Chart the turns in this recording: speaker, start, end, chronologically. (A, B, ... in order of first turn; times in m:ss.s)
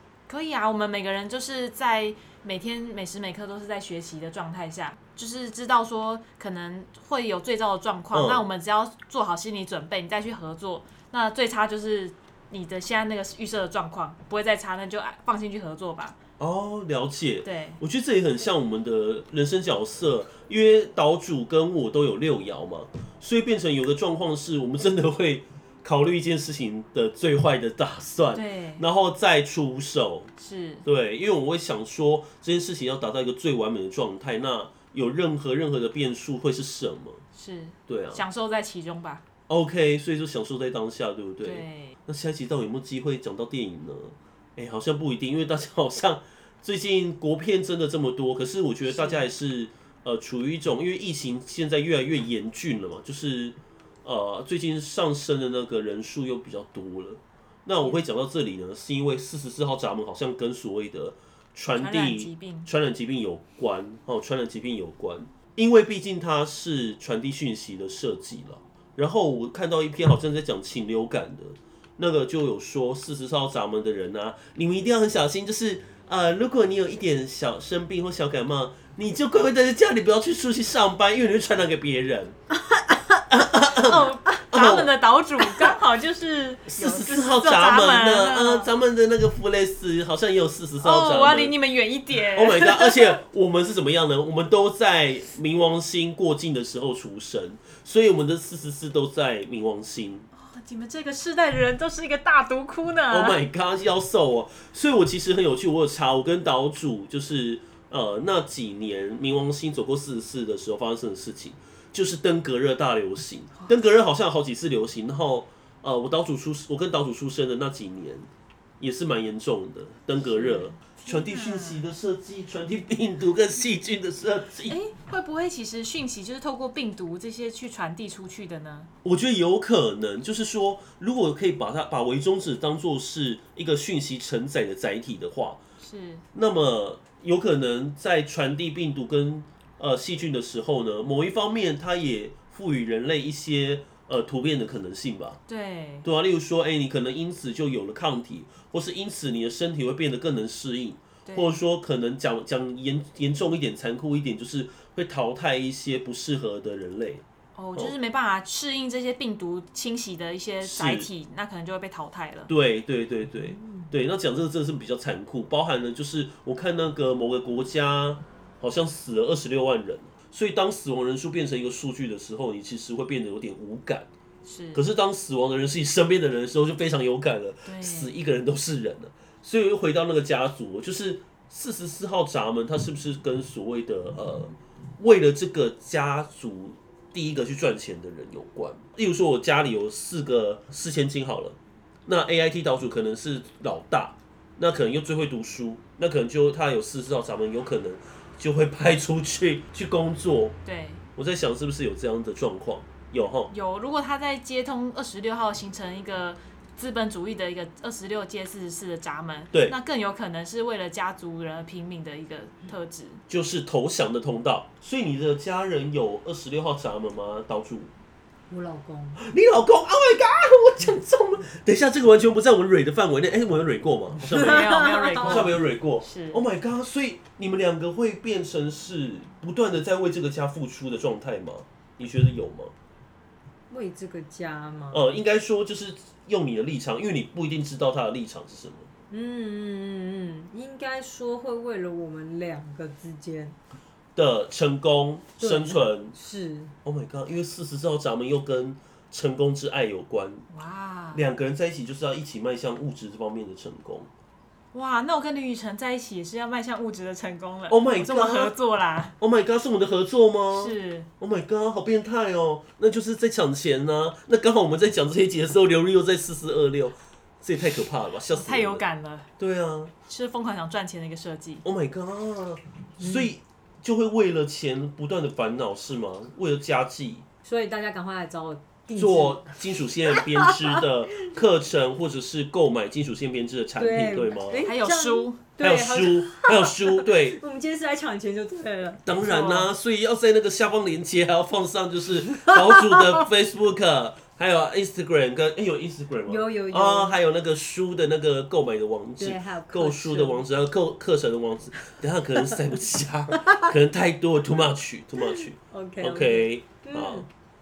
0:00.3-0:16.2 A
0:08.1-0:08.5 B
0:16.4-0:30.3 B
0:17.4-0:17.8 A
0:28.3-0:28.8 A
0:30.4-0:30.8 A
0:30.8-0:37.2 B
0:37.4-0:39.2 A
0:37.9-0:38.2 B
0:39.5-1:22.4 B
0:41.4-0:42.0 A
0:48.9-0:49.3 A
1:01.7-1:02.7 A
1:23.3-1:24.9 B
1:23.7-1:28.7 A
1:26.7-1:31.6 B
1:30.8-1:33.1 A
1:32.3-1:40.3 B
1:40.3-1:43.4 A
1:43.1-1:58.3 B
1:58.8-2:04.8 B
2:00.3-2:01.8 A
2:04.7-2:08.9 A
2:09.0-2:15.6 B
2:15.8-2:16.2 A
2:16.3-2:25.4 B
2:25.5-2:26.1 A
2:26.0-2:37.2 B
2:31.3-2:31.6 A
2:37.6-2:42.5 A
2:40.6-2:41.1 B
2:42.5-2:54.1 B
2:54.4-2:54.8 A
2:54.8-3:20.6 B
2:57.7-2:58.1 A
3:20.6-3:21.0 A
3:21.2-3:23.5 B
3:23.3-3:33.2 A
3:33.3-3:37.9 B
3:38.5-3:39.2 C
3:39.2-3:52.7 B
3:44.2-3:46.4 A
3:44.3-3:45.4 C
3:53.7-3:55.1 C
3:54.9-3:58.9 B
3:59.1-4:03.6 C
4:04.2-4:06.2 B
4:05.4-4:06.7 C
4:06.8-4:10.5 B
4:10.5-4:11.2 A
4:11.1-4:14.1 B
4:14.7-4:19.2 A
4:17.7-4:18.5 B
4:19.2-4:28.8 B
4:20.5-4:21.1 A
4:28.3-4:29.3 A
4:29.4-4:29.9 B
4:30.1-4:31.6 A
4:31.6-4:37.2 B
4:33.0-4:33.3 C
4:37.4-4:39.5 C
4:39.0-4:44.6 B
4:40.1-4:40.8 C
4:43.8-4:49.0 C
4:44.6-4:45.4 A
4:45.6-4:47.4 B
4:49.1-5:07.3 B
4:49.2-4:49.7 A
4:52.3-4:53.2 C
4:56.3-4:57.2 C
4:59.2-5:00.4 C
5:03.4-5:03.7 C
5:05.7-5:07.3 C